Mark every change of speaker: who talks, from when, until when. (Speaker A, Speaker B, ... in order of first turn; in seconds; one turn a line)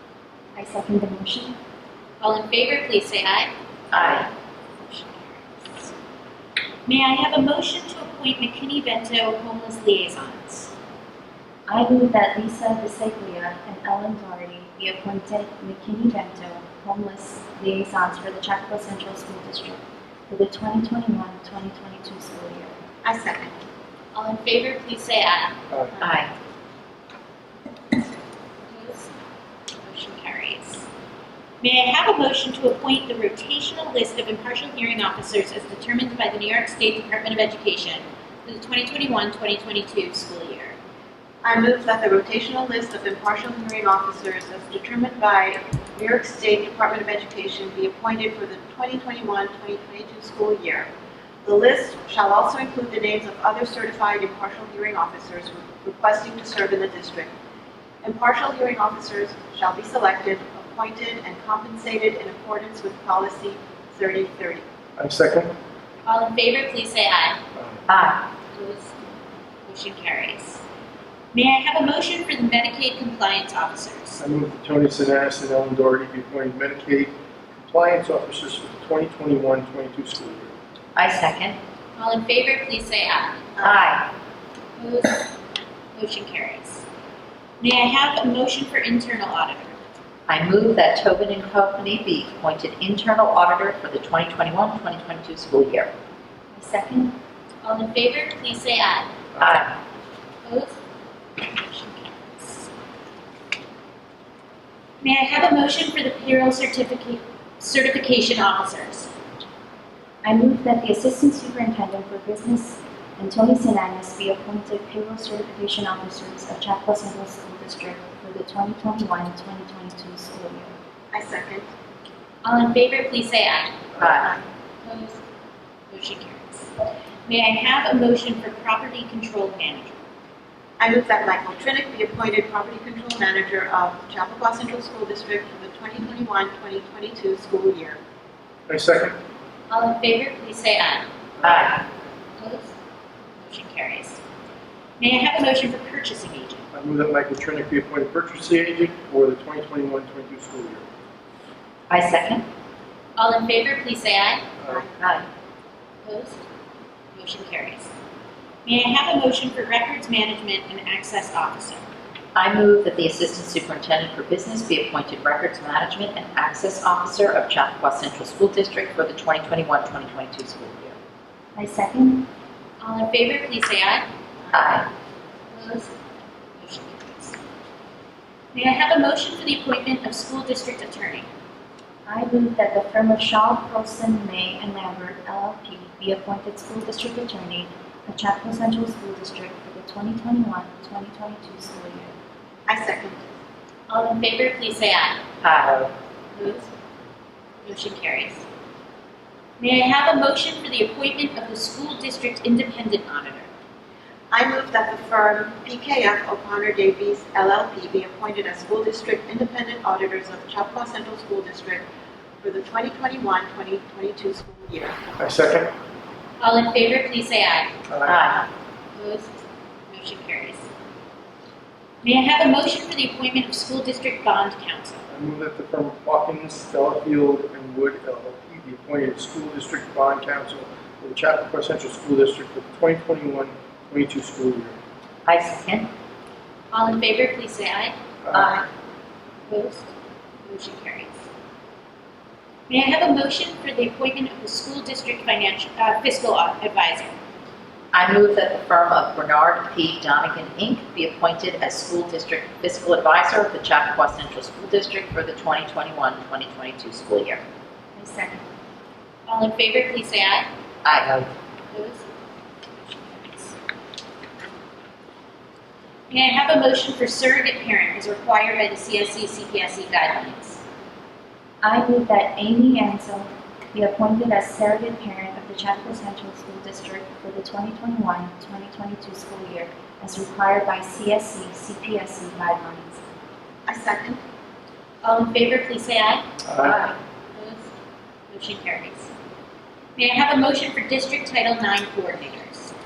Speaker A: 0.6-1.5
Speaker B: 2.2-3.5
Speaker C: 3.9-4.3
Speaker B: 4.8-5.9
Speaker B: 6.8-10.7
Speaker A: 11.7-22.7
Speaker D: 23.0-23.5
Speaker B: 24.1-25.5
Speaker C: 26.0-26.3
Speaker B: 28.7-29.1
Speaker B: 29.8-30.9
Speaker B: 31.6-40.8
Speaker D: 41.4-50.9
Speaker D: 51.4-57.3
Speaker D: 58.0-64.6
Speaker E: 65.0-65.5
Speaker B: 66.0-67.4
Speaker E: 67.6-67.8
Speaker C: 67.9-68.2
Speaker B: 68.5-69.0
Speaker B: 69.7-70.6
Speaker B: 71.3-74.2
Speaker E: 74.2-80.5
Speaker C: 80.9-81.6
Speaker B: 82.0-83.5
Speaker C: 83.6-84.1
Speaker B: 84.8-85.3
Speaker B: 85.9-86.8
Speaker B: 87.6-89.8
Speaker C: 90.3-95.9
Speaker A: 96.5-97.1
Speaker B: 97.6-99.1
Speaker C: 99.4-99.7
Speaker B: 100.4-100.8
Speaker B: 101.4-102.7
Speaker B: 105.0-109.1
Speaker A: 110.2-120.7
Speaker D: 121.1-121.7
Speaker B: 122.4-123.8
Speaker C: 124.0-124.3
Speaker D: 124.0-124.4
Speaker B: 124.8-125.2
Speaker B: 125.9-126.7
Speaker B: 127.3-130.0
Speaker D: 130.8-138.0
Speaker E: 138.7-139.2
Speaker B: 139.7-141.1
Speaker E: 141.4-141.7
Speaker C: 141.4-141.8
Speaker B: 142.4-142.7
Speaker B: 143.4-144.2
Speaker B: 145.0-146.6
Speaker E: 146.7-150.8
Speaker C: 151.9-152.4
Speaker B: 153.2-154.4
Speaker C: 155.0-155.2
Speaker B: 156.0-156.4
Speaker B: 157.1-157.9
Speaker B: 158.6-161.8
Speaker C: 162.3-170.9
Speaker A: 171.5-172.3
Speaker B: 172.8-174.0
Speaker C: 174.5-174.9
Speaker B: 175.5-175.9
Speaker B: 176.6-177.4
Speaker B: 178.5-181.3
Speaker A: 182.1-192.1
Speaker D: 192.7-193.2
Speaker B: 193.9-195.2
Speaker C: 195.4-195.9
Speaker B: 196.3-196.7
Speaker B: 197.6-198.4
Speaker B: 199.6-203.5
Speaker D: 204.3-211.8
Speaker D: 212.4-215.0
Speaker E: 215.2-215.7
Speaker B: 216.4-217.7
Speaker E: 217.9-218.2
Speaker C: 218.1-218.4
Speaker B: 218.9-219.3
Speaker B: 219.9-220.7
Speaker B: 222.0-225.0
Speaker E: 225.1-234.8
Speaker C: 235.2-235.9
Speaker B: 236.7-237.9
Speaker E: 238.2-238.6
Speaker C: 238.3-238.6
Speaker B: 239.5-239.9
Speaker B: 240.4-241.2
Speaker B: 242.7-247.2
Speaker C: 247.9-257.4
Speaker A: 257.9-258.4
Speaker B: 259.3-260.5
Speaker C: 260.8-261.3
Speaker B: 261.7-262.1
Speaker B: 262.8-263.6
Speaker B: 266.1-270.6
Speaker A: 271.6-283.0
Speaker D: 283.7-284.2
Speaker B: 285.0-286.2
Speaker E: 286.4-286.8
Speaker B: 286.8-287.7
Speaker B: 288.3-289.1
Speaker B: 290.0-292.7